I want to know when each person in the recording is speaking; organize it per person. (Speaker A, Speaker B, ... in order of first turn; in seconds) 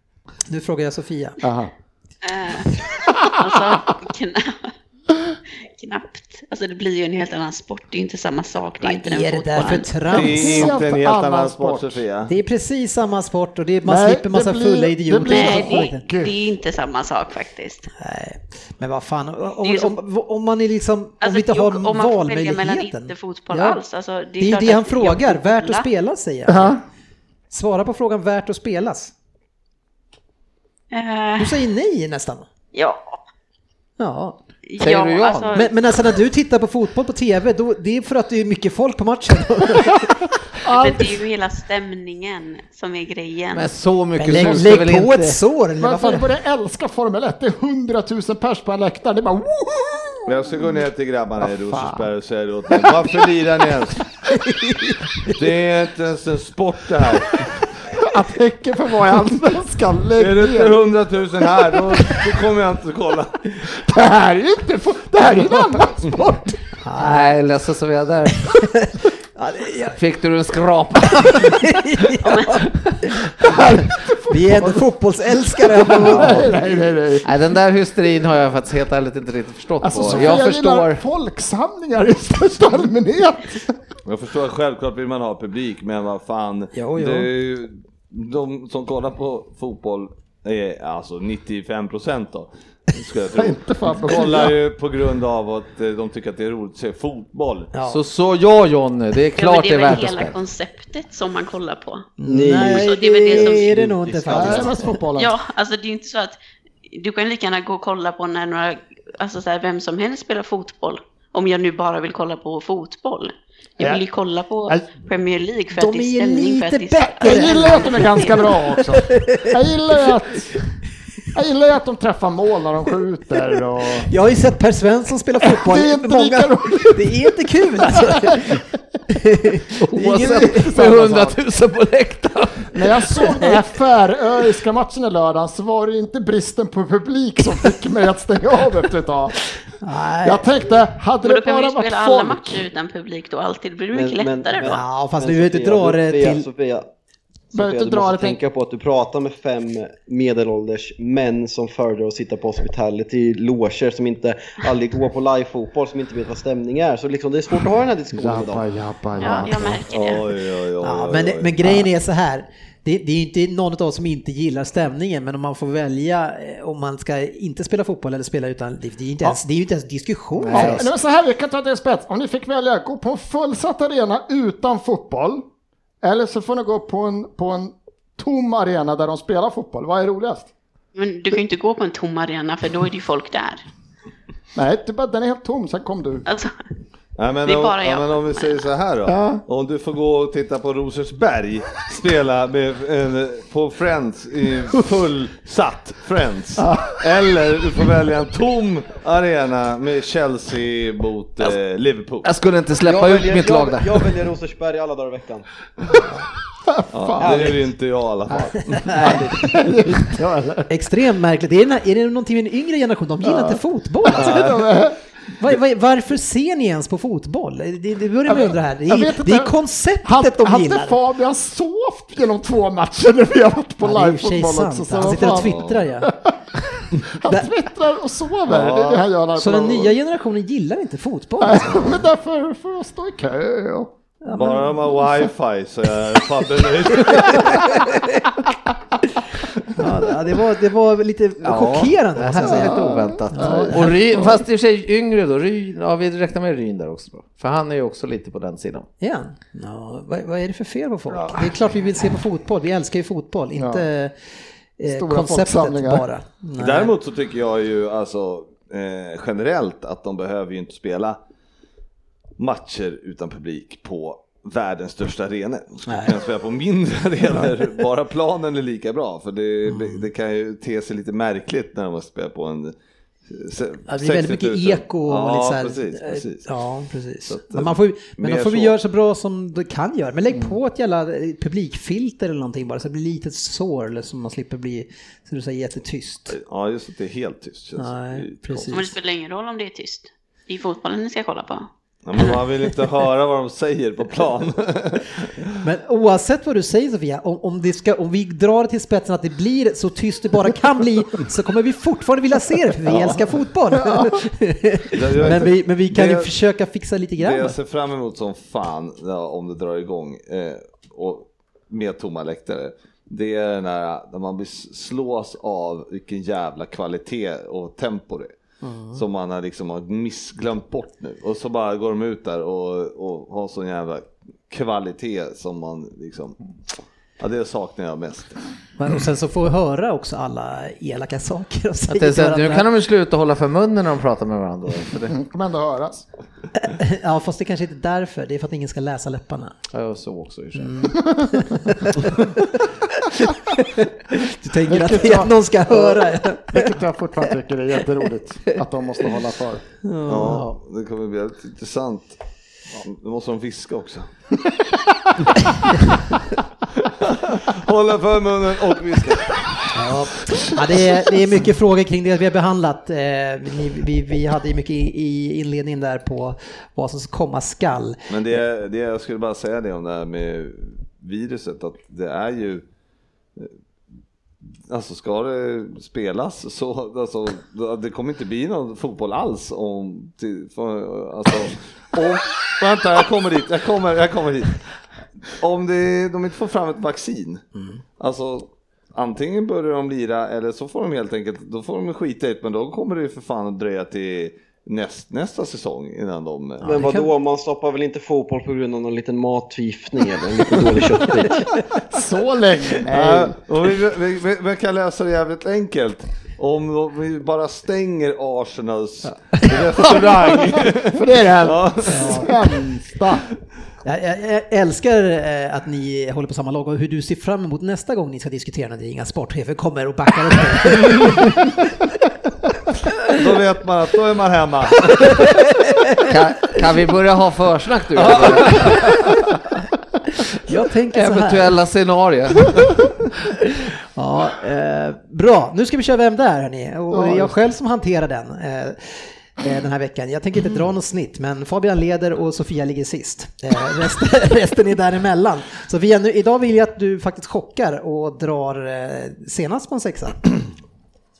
Speaker A: 0.5-1.4, 8.8-10.8, 12.3-16.0, 18.0-23.8, 24.4-26.8, 27.5-29.1, 31.4-32.5, 34.0-34.4, 35.5-40.2, 44.2-46.3, 54.4-55.3, 66.8-67.3, 68.5-70.0, 71.1-73.5, 74.3-76.7, 86.7-87.3, 97.7-98.0, 102.2-104.9, 115.7-118.2, 119.1-119.5, 124.1-130.7, 139.8-140.4, 144.6-146.5, 160.8-170.9, 208.8-209.2, 210.7-214.5, 215.4-221.0, 223.8-226.1, 229.3-232.0, 234.2-234.9, 239.8-244.0, 249.0-254.1, 254.8-256.9, 265.9-266.1, 269.7-270.0, 273.9-286.4, 287.8-288.9, 295.6-307.6, 318.6-319.0, 328.8-332.7, 336.6-339.6, 340.6-343.2, 343.7-346.7, 349.8-350.4, 359.7-368.0, 396.6-397.1, 411.9-412.3, 413.8-421.6, 430.5-431.5, 434.0-450.2
Speaker B: 1.4-1.7, 10.2-12.0, 13.8-16.3, 26.5-26.8, 40.7-41.2, 45.8-50.3, 58.0-60.8, 63.6-66.6, 73.4-74.8, 75.5-77.3, 79.8-83.7, 93.3-94.6, 104.3-105.3, 113.8-114.0, 114.7-115.0, 117.2-120.6, 121.3-124.1, 125.4-127.2, 127.9-128.6, 130.0-131.4, 132.7-139.4, 140.2-142.7, 147.5-148.4, 158.1-159.8, 170.4-175.4, 176.0-180.5, 184.6-186.2, 189.1-189.4, 196.6-197.0, 206.7-207.5, 209.3-210.7, 213.2-215.0, 218.3-226.4, 226.9-229.9, 231.4-233.9, 242.4-243.9, 251.1-251.5, 253.6-253.9, 254.9-256.1, 335.1-336.1, 341.0-341.4, 344.7-349.6, 401.9-403.4, 410.2-413.2, 436.9-437.4
Speaker C: 2.2-4.7, 5.5-10.1, 15.2-17.9, 19.6-20.0, 21.2-25.9, 30.9-31.6, 32.7-33.2, 34.7-35.7, 40.7-43.7, 72.2-72.6, 99.4-102.1, 102.6-103.8, 105.2-106.4, 106.9-118.9, 141.2-144.8, 159.2-160.3, 180.9-183.6, 186.3-186.5, 187.5-188.6, 288.7-291.7
Speaker D: 10.1-12.3, 50.3-54.0, 55.3-57.3, 60.2-63.5, 84.1-97.7, 159.9-161.9, 187.2-202.3, 206.9-209.3, 214.2-214.7, 225.2-225.8, 228.5-229.1, 234.3-237.7, 256.6-261.2, 262.4-272.8, 273.3-276.5, 277.2-278.8, 286.3-288.8, 292.1-295.5, 302.9-303.3, 304.9-306.3, 307.2-318.3, 318.9-326.4, 327.2-328.4, 350.1-352.2, 352.7-354.1, 357.0-359.7, 368.1-372.6, 374.7-384.6, 385.2-387.4, 388.0-396.9, 402.9-412.6, 423.1-425.2, 428.0-428.9
Speaker E: 34.8-35.6, 43.5-45.4, 67.0-68.5, 70.0-71.6, 77.2-81.0, 97.9-100.4, 129.8-133.1, 202.2-204.2, 241.4-248.9, 331.9-335.1, 339.7-341.0, 350.2-350.6, 426.0-428.9, 430.9-432.7
Speaker F: 102.3-104.8, 143.9-146.9, 147.5-158.7, 159.3-159.6, 202.8-205.5, 207.2-207.6, 208.9-209.5, 396.6-401.5